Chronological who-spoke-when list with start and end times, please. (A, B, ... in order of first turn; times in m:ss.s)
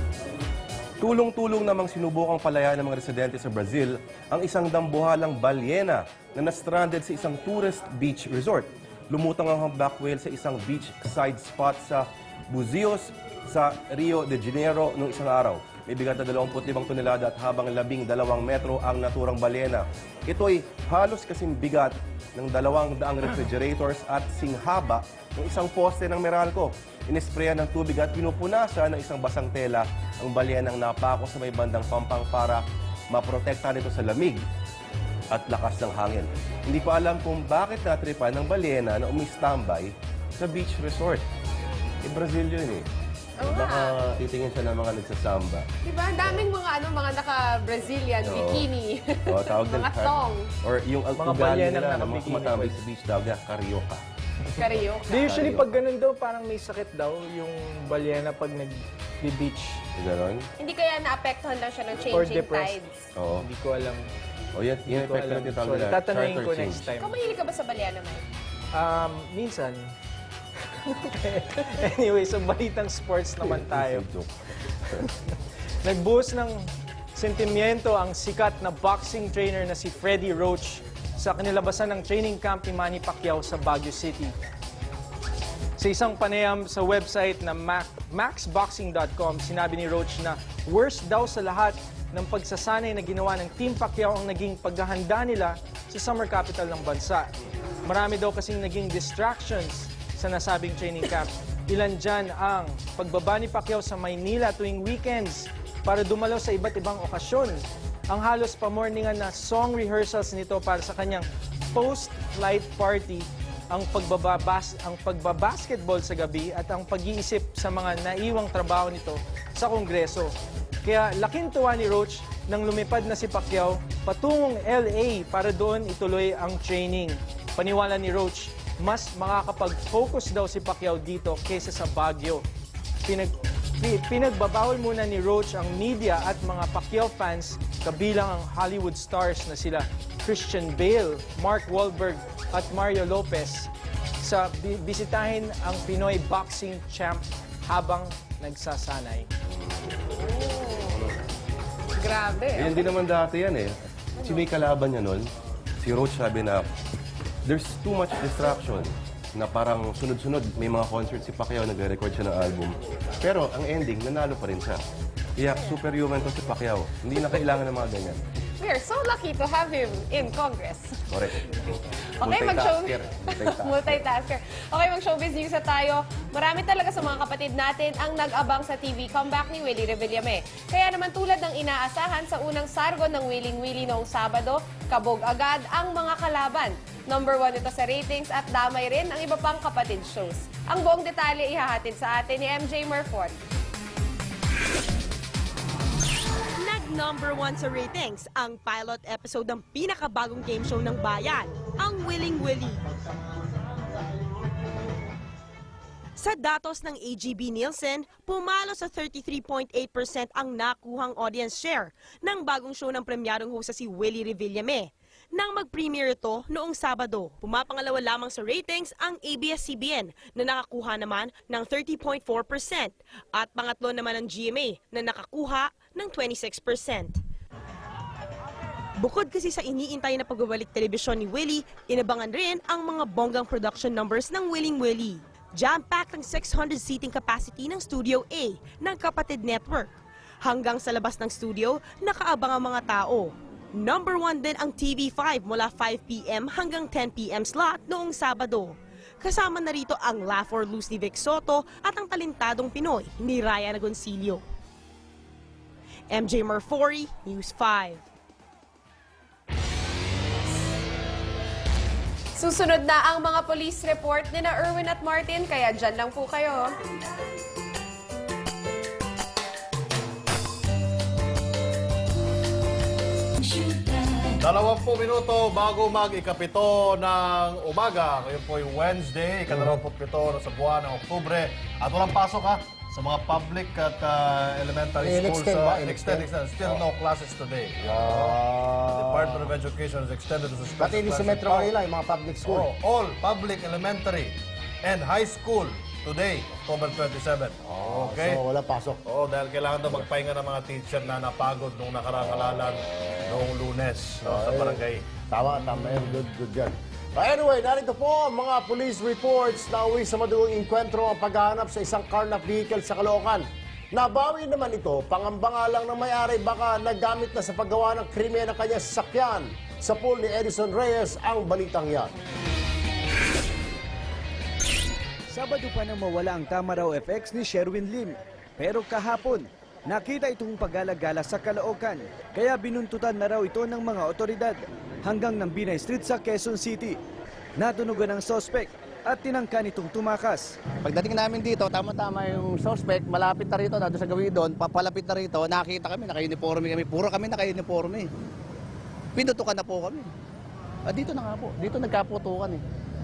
0:01.0-0:34.4 A
0:35.3-0:41.2 A
0:42.0-0:42.9 A
0:43.4-0:44.0 B
0:43.4-0:45.7 A
0:45.8-0:50.5 B
0:48.2-0:48.7 A
0:49.3-0:54.0 A
0:51.2-0:52.8 C
0:54.6-0:55.3 B
0:55.1-0:59.8 C
0:55.2-0:55.8 A
1:00.0-1:00.5 A
1:00.6-1:03.0 B
1:02.0-1:04.1 C
1:03.2-1:03.4 A
1:04.6-1:07.0 A
1:04.9-1:07.1 C
1:07.0-1:08.2 B
1:08.7-1:09.9 C
1:10.9-1:14.1 C
1:13.4-1:14.3 A
1:15.8-1:24.4 C
1:25.8-1:37.3 C
1:37.8-2:00.3 C
2:00.8-2:12.4 C
2:13.1-2:23.7 C
2:24.2-2:29.3 C
2:29.5-2:30.1 A
2:30.2-2:30.9 B
2:30.9-2:31.2 A
2:32.0-2:32.9 B
2:32.5-2:35.2 A
2:34.2-2:34.5 B
2:35.8-2:36.7 A
2:37.5-2:44.8 A
2:45.4-2:48.2 A
2:48.6-2:51.0 B
2:51.1-2:51.5 A
2:52.2-3:13.4 B
2:52.2-2:54.1 A
3:16.6-3:22.8 D
3:26.2-3:47.2 D
3:49.0-4:14.4 D
4:16.1-4:18.0 D
4:22.4-4:26.7 B
4:34.4-4:51.8 E
4:39.5-4:39.8 F
4:45.0-4:46.8 F
4:47.8-4:49.5 F
4:50.8-4:52.7 F
4:52.4-4:58.4 E
4:57.7-4:59.0 F
4:59.0-5:05.0 E
5:04.2-5:22.1 F
5:25.3-5:37.0 G
5:37.6-5:40.6 G
5:40.8-5:48.1 H
5:49.2-5:50.1 H
5:50.9-5:52.6 H